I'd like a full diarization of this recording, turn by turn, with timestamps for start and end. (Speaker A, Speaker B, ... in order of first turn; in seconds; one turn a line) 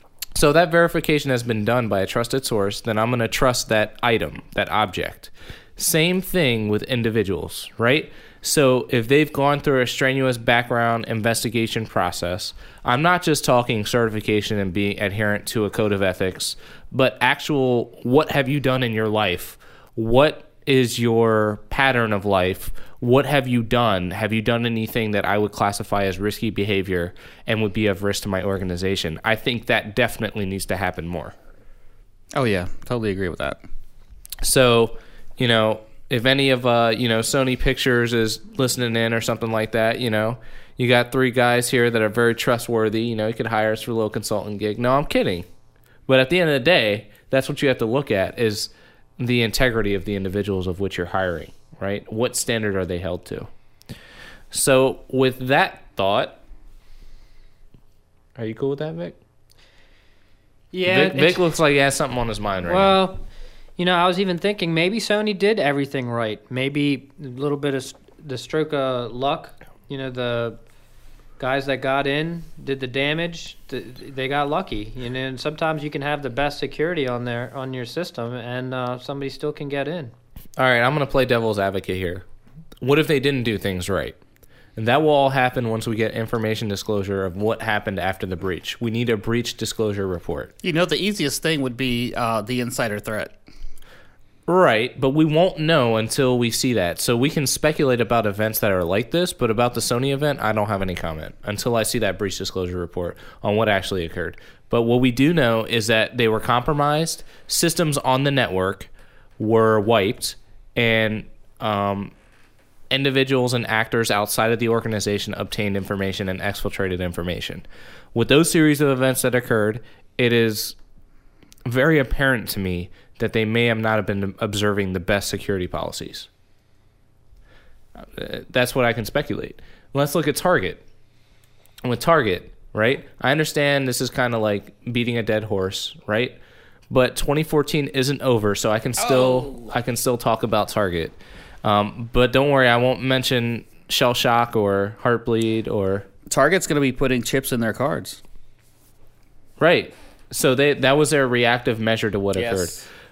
Speaker A: 0.3-31.4
Speaker B: 32.3-33.6
Speaker A: 34.4-45.5
Speaker A: 46.1-53.5
Speaker A: 54.5-56.4
Speaker A: 58.4-59.2
Speaker C: 60.7-61.5
Speaker A: 60.9-63.0
Speaker C: 62.6-63.2
Speaker C: 63.8-70.6
Speaker C: 71.4-80.1
Speaker A: 80.6-82.2
Speaker A: 82.8-84.2
Speaker A: 84.8-90.5
Speaker B: 90.6-93.3
Speaker A: 94.5-112.1
Speaker A: 112.9-120.8
Speaker A: 121.7-126.3
Speaker A: 128.0-130.8
Speaker A: 131.8-136.4
Speaker A: 136.9-146.1
Speaker B: 139.0-139.7
Speaker B: 146.3-148.2
Speaker A: 149.6-152.7
Speaker B: 152.3-152.9